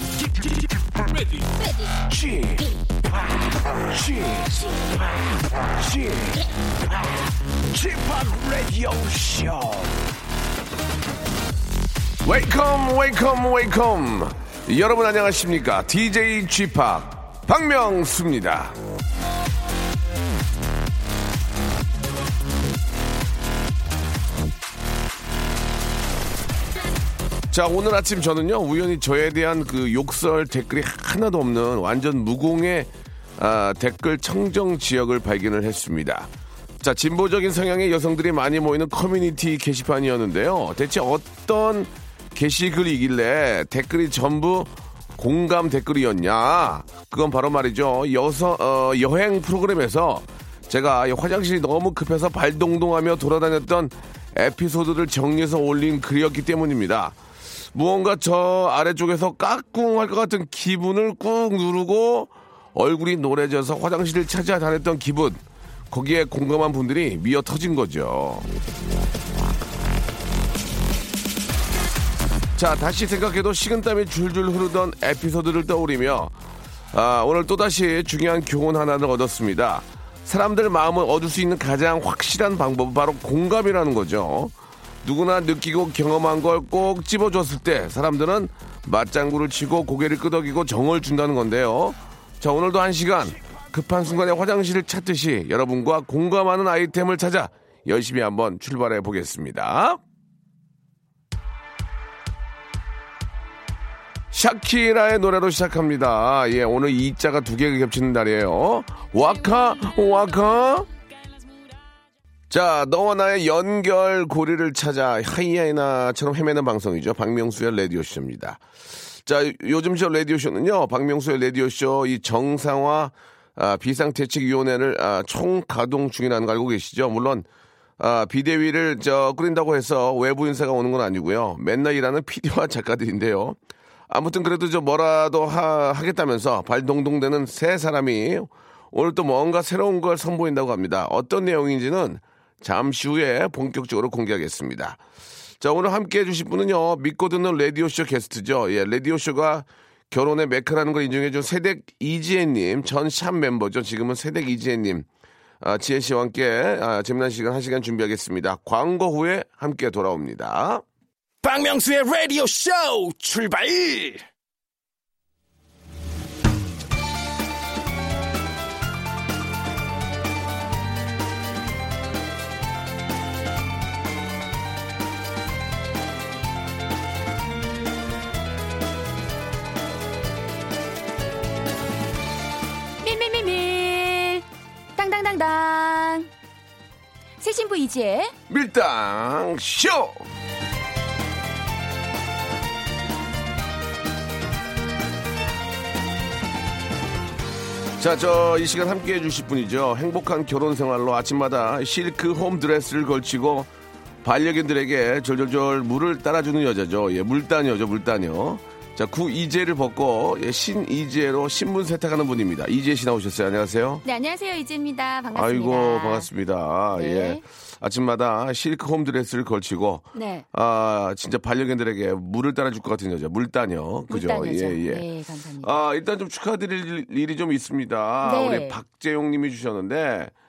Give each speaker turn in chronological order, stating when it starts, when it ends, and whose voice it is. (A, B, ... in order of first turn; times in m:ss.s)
0:00.2-0:10.0 A
0:12.2-0:18.8 B
0:27.5-0:57.2 B
0:57.7-1:08.5 B
1:12.6-1:16.3 B
1:16.9-1:40.0 B
1:44.3-1:50.9 B
1:52.5-1:58.6 B
1:59.2-2:07.4 B
2:08.0-2:13.6 B
2:14.1-2:25.0 B
2:25.6-2:35.1 B
2:35.6-2:40.8 B
2:41.4-2:44.2 A
3:03.0-3:06.3 C
3:07.4-3:08.3 C
3:08.5-3:10.2 B
3:18.0-3:23.7 B
3:24.2-3:34.0 B
3:34.0-3:36.3 C
3:35.3-3:45.0 B
3:36.9-3:37.4 C
3:40.1-3:40.4 C
3:44.1-3:45.7 C
3:45.6-3:50.3 B
3:48.2-3:48.8 C